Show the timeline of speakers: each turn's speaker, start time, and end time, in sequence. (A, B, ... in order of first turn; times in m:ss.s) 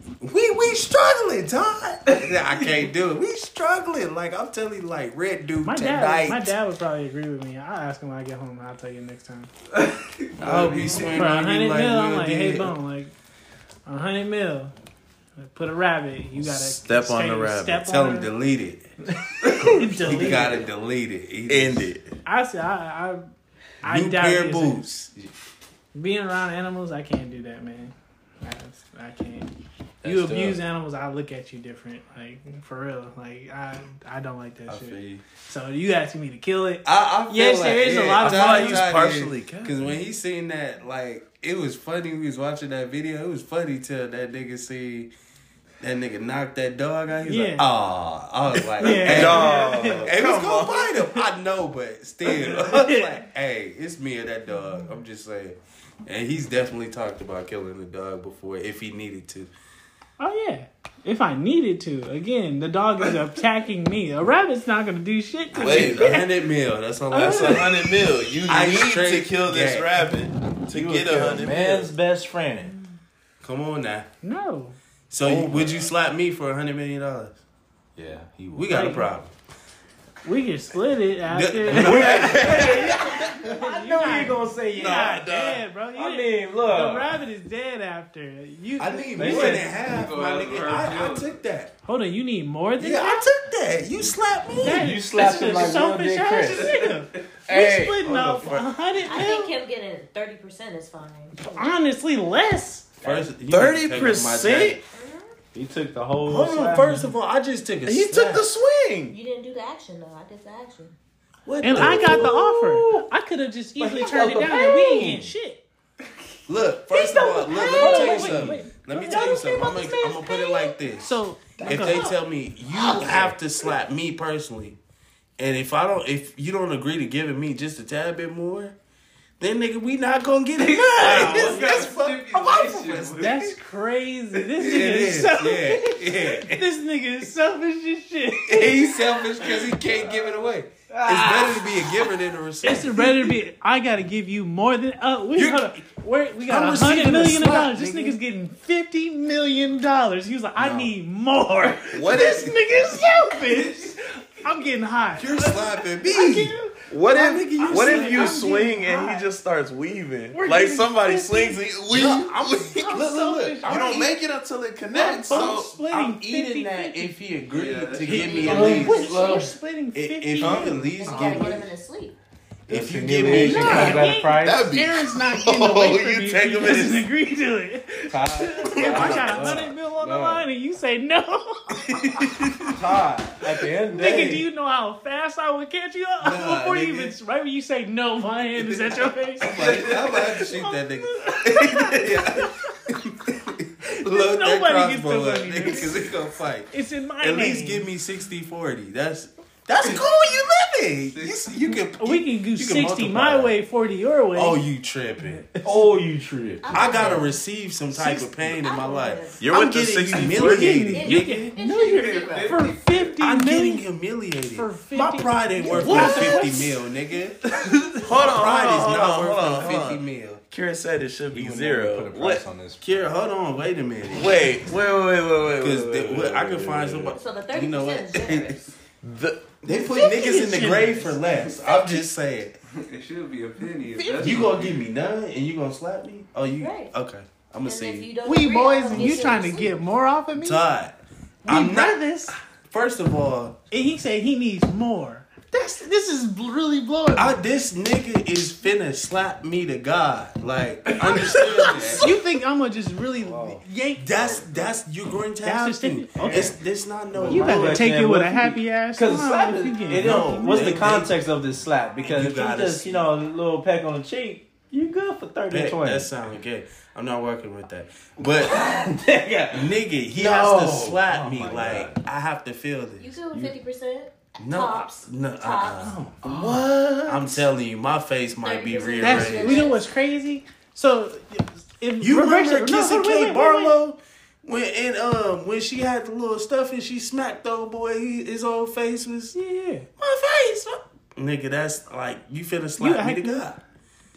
0:00.2-0:06.5 A
0:05.6-0:09.5 B
0:09.7-0:11.4 C
0:10.4-0:12.7 A
0:10.4-0:13.1 B
0:13.8-0:14.7 B
0:15.4-0:18.3 B
0:16.4-0:17.8 D
0:17.8-0:18.9 A
0:19.4-0:19.7 C
0:19.4-0:20.6 B
0:19.6-0:21.9 A
0:21.5-0:22.2 D
0:22.2-0:23.3 B
0:23.8-0:24.8 B
0:23.8-0:25.3 A
0:25.9-0:29.5 B
0:30.0-0:30.6 E
0:30.0-0:38.9 B
0:34.7-0:35.2 E
0:36.8-0:45.1 A
0:38.2-0:39.8 D
0:45.8-0:59.5 A
0:47.2-0:47.7 B
0:48.6-0:51.1 D
0:48.8-0:50.1 B
0:49.0-0:50.2 C
0:52.2-0:53.1 B
1:00.2-1:06.2 B
1:05.5-1:06.2 D
1:05.5-1:07.9 A
1:07.1-1:08.0 B
1:07.1-1:11.9 D
1:08.4-1:09.9 A
1:10.7-1:12.7 E
1:13.4-1:14.1 A
1:14.2-1:14.8 B
1:15.1-1:17.4 A
1:15.2-1:15.9 E
1:18.0-1:18.9 E
1:18.5-1:19.3 A
1:18.7-1:19.1 B
1:20.2-1:29.6 B
1:21.3-1:22.9 A
1:21.7-1:25.1 E
1:21.8-1:23.2 D
1:24.7-1:25.6 D
1:25.9-1:27.1 E
1:28.8-1:31.7 A
1:29.2-1:29.7 E
1:29.8-1:31.4 C
1:31.8-1:33.3 B
1:32.8-1:35.0 A
1:34.6-1:39.5 B
1:34.7-1:36.7 E
1:36.5-1:37.3 C
1:37.4-1:38.1 E
1:38.0-1:38.7 A
1:39.0-1:41.4 F
1:41.4-1:42.9 B
1:43.0-1:44.8 A
1:43.4-1:44.8 D
1:44.9-1:45.3 F
1:45.5-1:47.0 E
1:46.2-1:48.5 A
1:46.7-1:47.0 B
1:47.8-1:49.2 D
1:49.1-1:50.9 F
1:51.4-1:52.5 A
1:51.6-1:55.6 B
1:51.8-1:53.0 E
1:53.8-1:55.3 E
1:56.5-2:04.8 A
1:56.9-1:58.4 F
1:57.8-1:59.5 B
1:58.2-1:58.6 E
1:59.0-2:00.8 F
2:01.0-2:02.1 B
2:01.9-2:02.1 F
2:02.9-2:03.3 E
2:05.4-2:08.7 A
2:09.4-2:13.5 A
2:10.6-2:13.5 C
2:11.0-2:11.7 B
2:13.1-2:18.9 B
2:14.6-2:16.7 A
2:18.5-2:23.1 A
2:19.4-2:19.6 C
2:20.1-2:20.4 E
2:20.9-2:21.9 E
2:22.6-2:36.8 B
2:25.4-2:25.8 A
2:26.5-2:28.2 A
2:30.6-2:30.9 D
2:31.8-2:33.0 D
2:35.1-2:36.5 A
2:36.9-2:43.0 D
2:37.1-2:38.7 A
2:37.6-2:39.3 B
2:40.3-2:41.6 B
2:41.9-2:44.0 A
2:42.7-2:44.1 B
2:43.6-2:45.8 D
2:44.9-2:47.2 B
2:45.3-2:49.4 A
2:47.5-2:49.0 C
2:48.1-2:51.5 B
2:48.1-2:49.5 E
2:49.9-2:51.7 A
2:50.4-2:50.7 D
2:51.0-2:52.2 F
2:52.7-2:54.0 A
2:52.7-2:54.7 E
2:53.2-3:02.3 B
2:53.3-2:57.1 D
2:58.1-3:00.5 E
2:58.7-2:59.4 D
2:58.8-2:59.7 A
3:02.0-3:02.7 D
3:02.7-3:04.4 E
3:03.9-3:12.5 B
3:06.2-3:07.1 A
3:08.9-3:23.5 A
3:09.4-3:10.4 C
3:14.0-3:16.0 B
3:16.7-3:17.9 B
3:21.1-3:21.5 C
3:22.0-3:24.6 B
3:24.3-3:25.4 A
3:25.2-3:25.7 B
3:25.6-3:26.7 E
3:26.6-3:27.3 F
3:26.7-3:31.5 A
3:27.9-3:28.3 B
3:28.6-3:29.4 F
3:29.4-3:30.9 D
3:30.2-3:33.9 B
3:30.9-3:32.6 F
3:31.6-3:33.2 C
3:33.2-3:37.5 A
3:34.5-3:36.8 B
3:35.7-3:36.5 D
3:37.7-3:42.4 D
3:38.0-3:40.4 A
3:41.3-3:43.1 E
3:42.8-3:44.4 A
3:44.1-3:47.2 D
3:45.5-3:48.6 A
3:47.1-3:48.7 F
3:49.0-3:49.5 D
3:49.6-3:52.5 A
3:49.7-3:51.2 B
3:51.6-3:52.1 F
3:52.7-3:54.8 C
3:53.9-3:54.5 F
3:54.2-3:58.1 A
3:56.6-3:56.9 F
3:57.6-3:59.8 F
3:58.2-4:00.6 B
3:58.9-3:59.5 A
4:00.3-4:02.1 A
4:01.4-4:02.4 B
4:02.7-4:03.5 A
4:03.7-4:07.4 B
4:07.1-4:12.1 A
4:11.3-4:14.4 B
4:11.3-4:11.7 E
4:13.2-4:13.6 E
4:14.0-4:17.9 A
4:14.2-4:14.6 E
4:15.4-4:16.5 B
4:16.2-4:16.6 E
4:17.1-4:26.1 E
4:17.2-4:20.9 B
4:19.9-4:21.2 A
4:22.0-4:23.0 A
4:25.5-4:28.6 A
4:28.5-4:32.0 E
4:29.5-4:33.2 A
4:33.0-4:36.0 F
4:34.4-4:36.2 A
4:36.2-4:36.7 E
4:36.2-4:37.4 D
4:37.0-4:39.7 A
4:38.4-4:39.8 F
4:39.0-4:43.7 B
4:42.0-4:49.4 A
4:49.3-4:49.8 B
4:50.0-4:53.6 A
4:52.8-4:53.4 B